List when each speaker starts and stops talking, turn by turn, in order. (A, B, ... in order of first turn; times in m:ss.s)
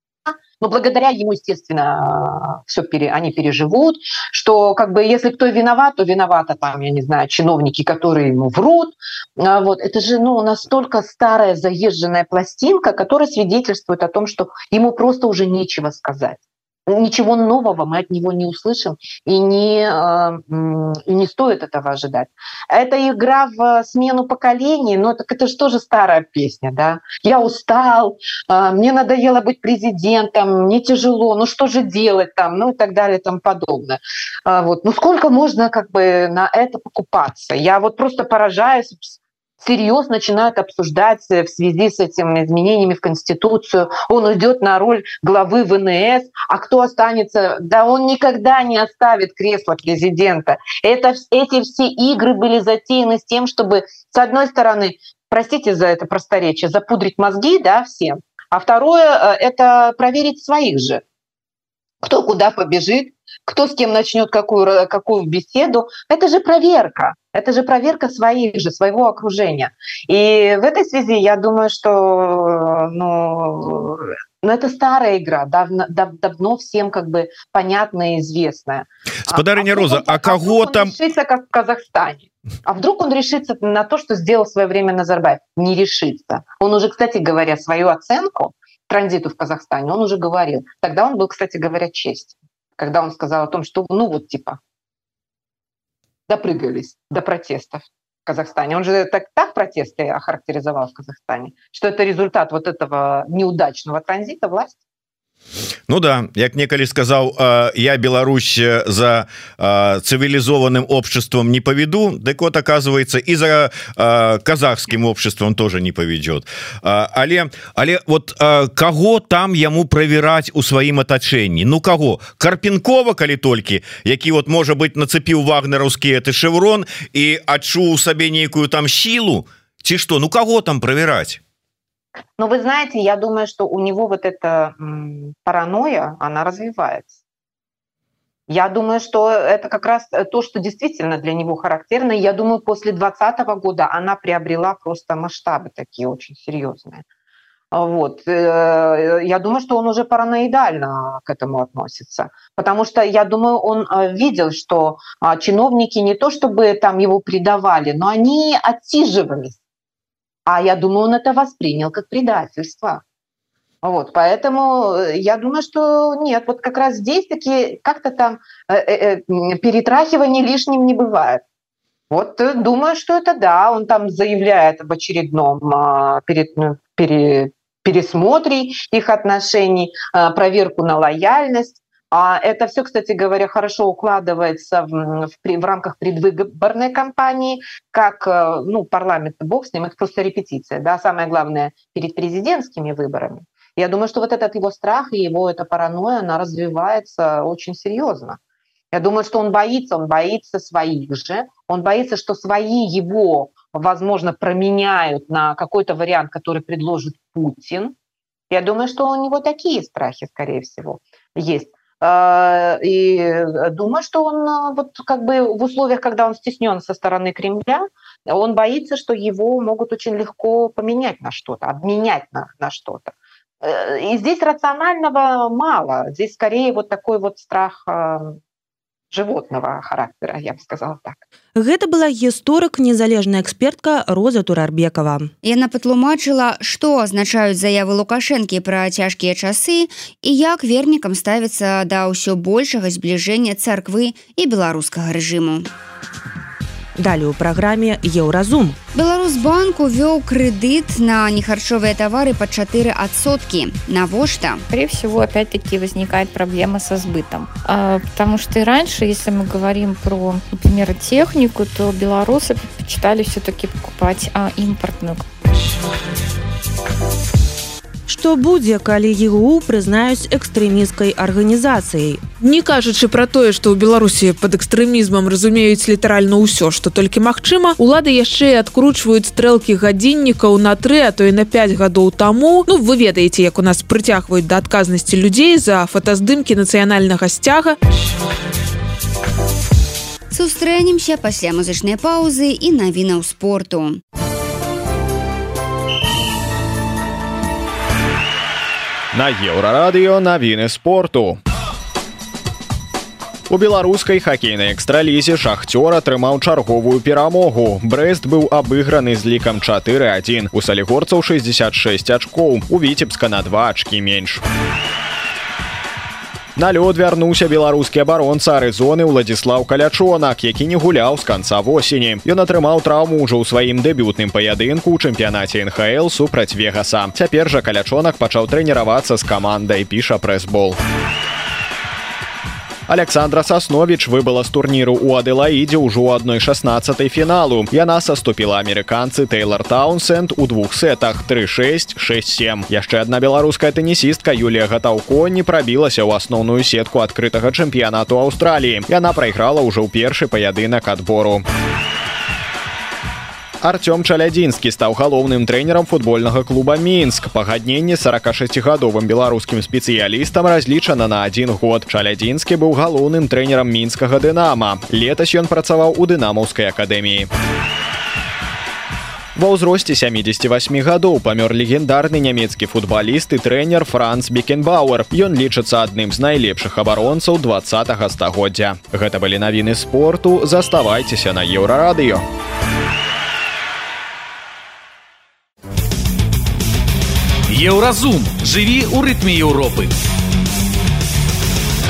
0:00.6-1:01.0 A
1:02.0-1:34.6 A
1:19.3-1:20.9 B
1:36.3-1:44.8 A
1:45.9-2:11.4 B
2:12.4-2:17.2 A
2:18.5-2:27.0 A
2:27.7-2:39.6 A
2:40.5-2:43.0 A
2:43.8-2:51.4 A
2:52.1-3:18.4 A
3:18.9-3:27.9 A
3:28.5-3:48.4 A
3:49.1-3:51.2 A
3:51.6-3:55.3 C
3:55.4-4:05.7 D
4:07.0-4:08.8 C
4:08.9-4:14.6 D
4:14.7-4:25.2 E
4:28.1-4:32.2 C
4:32.4-4:47.7 F
4:50.3-4:54.0 D
4:59.1-5:01.4 G
5:03.5-5:14.4 G
5:16.6-5:30.8 G
5:32.9-5:51.4 G
5:53.6-6:07.3 G
6:09.3-6:22.2 G
6:27.5-6:29.9 H